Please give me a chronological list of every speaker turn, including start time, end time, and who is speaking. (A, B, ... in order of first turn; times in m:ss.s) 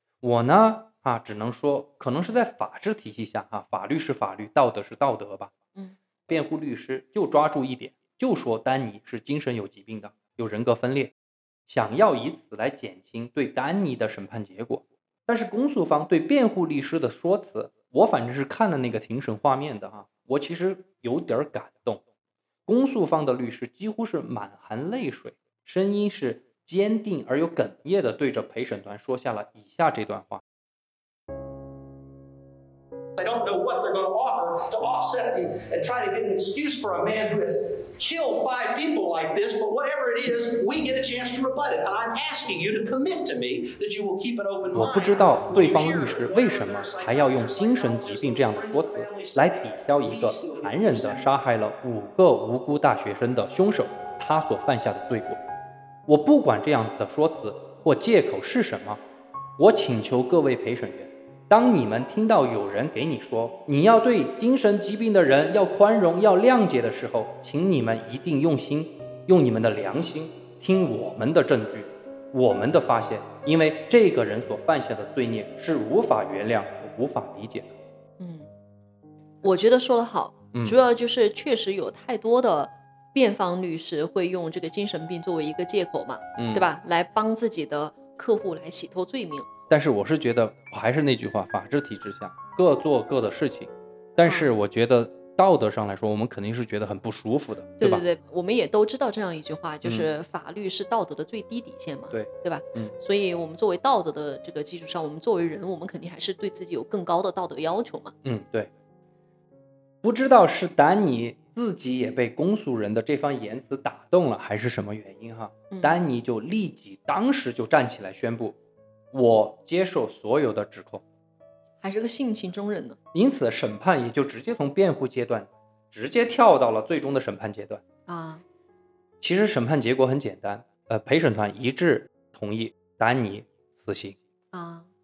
0:00.2-0:05.5 A
0:06.3-0:11.1 A
0:11.7-0:22.0 A
0:22.7-0:30.4 A
0:33.2-0:51.2 B
0:44.7-0:55.4 A
0:56.1-0:59.0 A
0:59.6-1:17.7 A
1:18.2-1:18.5 C
1:19.4-1:29.5 C
1:20.5-1:20.8 A
1:26.4-1:26.7 A
1:29.7-1:38.0 A
1:34.2-1:34.5 C
1:37.8-1:48.1 C
1:39.8-1:40.1 A
1:42.1-1:42.9 A
1:48.2-1:48.7 A
1:50.0-1:58.6 A
1:55.7-1:56.0 C
1:59.1-2:01.0 A
2:01.8-2:03.0 C
2:03.1-2:07.8 A
2:08.1-2:08.4 C
2:09.2-2:14.2 A
2:14.5-2:14.9 C